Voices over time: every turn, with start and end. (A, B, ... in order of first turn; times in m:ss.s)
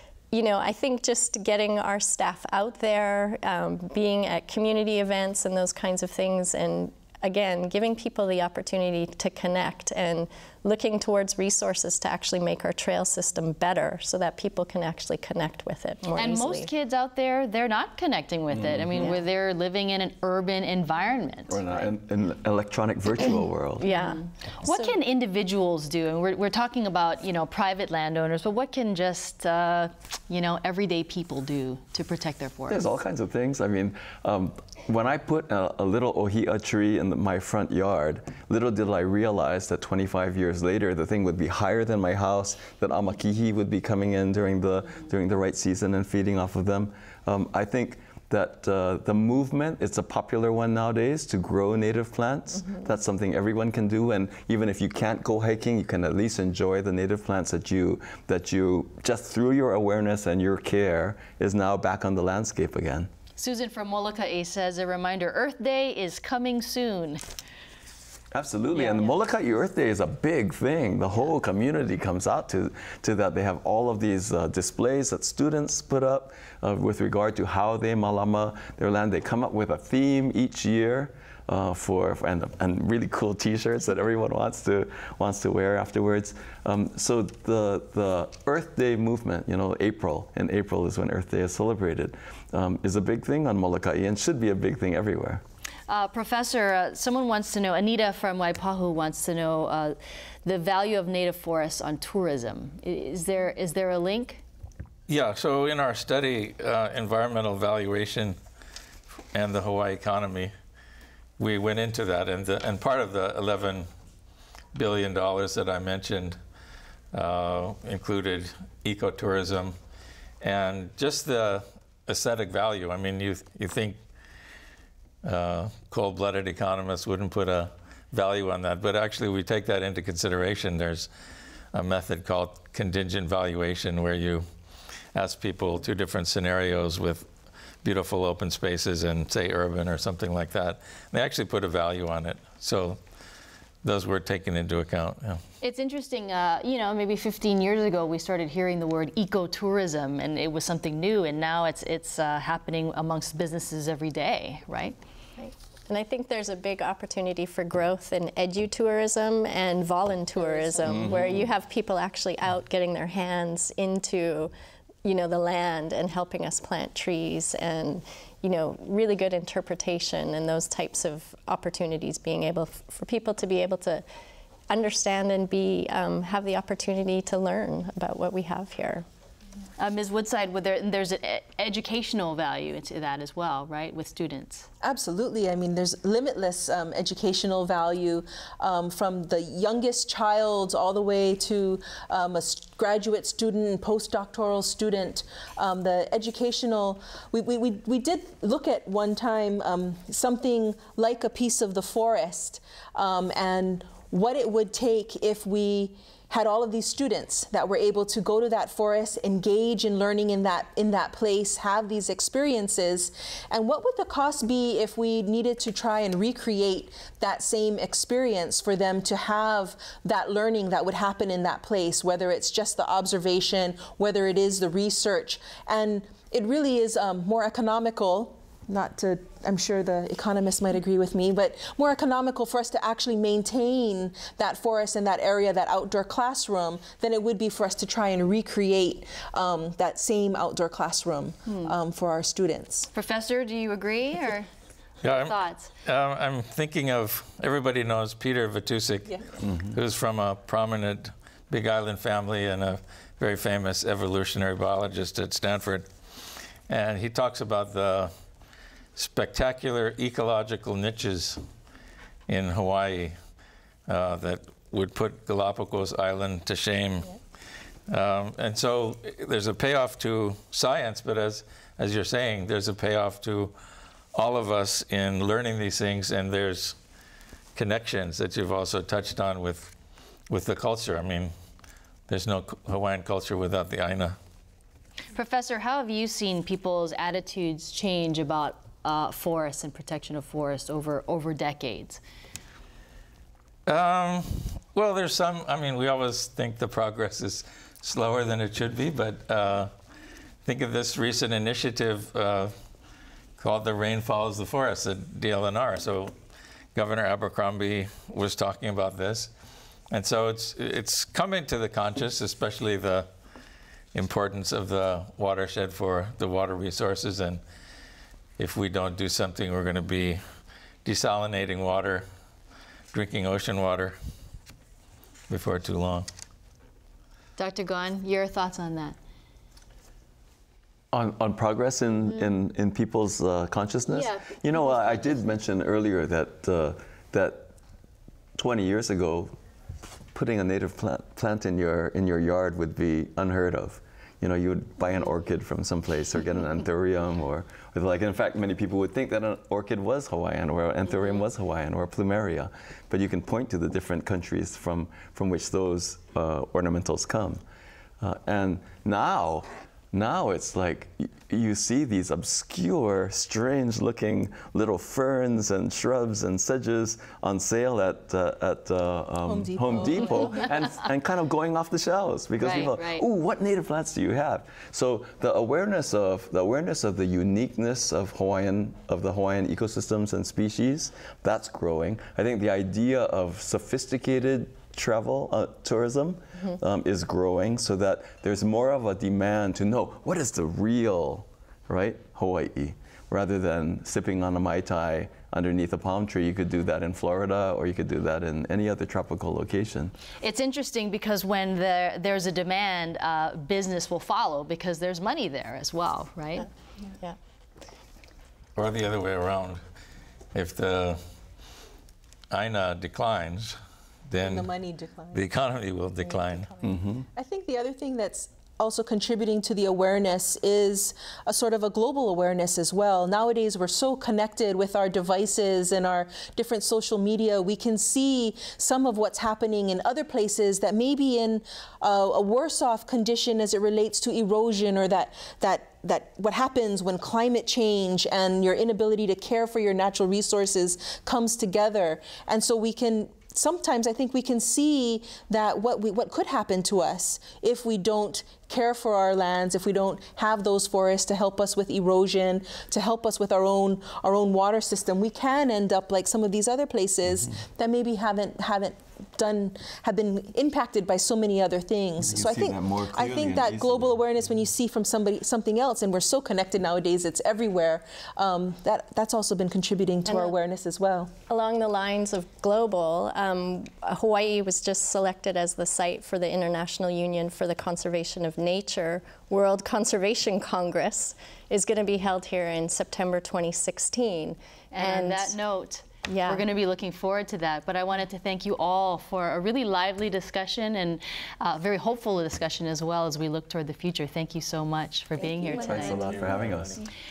0:00.3-0:16.7 A
0:16.2-0:21.9 B
0:18.5-0:19.1 C
0:21.5-0:23.9 C
0:23.8-0:24.9 A
0:23.8-0:32.9 B
0:32.7-1:03.1 C
1:03.4-1:07.2 B
1:08.3-1:35.4 C
1:08.8-1:09.2 B
1:35.9-1:44.4 B
1:45.1-1:48.4 D
1:49.3-1:50.5 D
1:51.4-1:53.9 D
1:54.7-1:56.4 D
1:57.1-1:59.8 D
2:00.4-2:04.0 D
2:05.2-2:11.1 D
2:11.7-2:14.4 D
2:15.1-2:17.3 D
2:17.8-2:23.0 D
2:23.8-2:25.4 D
2:25.6-2:35.0 B
2:35.4-2:44.5 A
2:41.0-2:41.4 C
2:45.0-2:54.0 A
2:54.7-2:59.0 A
2:59.8-3:04.7 B
3:04.8-4:02.9 E
4:01.5-4:01.7 B
4:02.9-4:04.5 B
4:05.0-4:15.9 D
4:05.0-4:05.7 B
4:09.4-4:09.8 C
4:16.7-4:18.1 D
4:19.0-4:21.4 D
4:22.3-4:23.2 D
4:23.9-4:27.2 D
4:27.9-4:33.5 D
4:34.1-4:36.8 D
4:37.6-4:39.7 D
4:40.3-4:41.3 D
4:42.1-4:44.2 D
4:45.1-4:52.0 B
4:53.7-4:59.7 D
5:00.4-5:02.5 D
5:03.4-5:06.1 D
5:06.8-5:09.3 D
5:09.9-5:13.1 D
5:13.9-5:17.4 D
5:18.4-5:20.2 D
5:20.8-5:22.1 D
5:22.9-5:24.0 D
5:25.3-5:26.1 D
5:27.4-5:29.0 B
5:30.9-5:37.5 C
5:33.9-5:35.2 B
5:38.4-5:39.4 C
5:40.1-5:57.4 C
5:58.0-6:40.0 C
6:09.3-6:10.4 E
6:12.4-6:13.0 B
6:40.2-6:46.5 B
6:48.6-6:49.6 D
6:50.3-6:51.0 D
6:52.3-6:53.6 D
6:54.1-6:54.5 D
6:54.2-6:55.2 E
6:55.1-6:56.6 D
6:56.6-6:57.1 C
6:57.1-7:51.1 E
7:42.0-7:44.0 C
7:50.1-7:50.4 A
7:51.3-8:05.4 A
8:04.7-8:16.1 B
8:06.1-8:06.5 A
8:15.5-8:16.9 C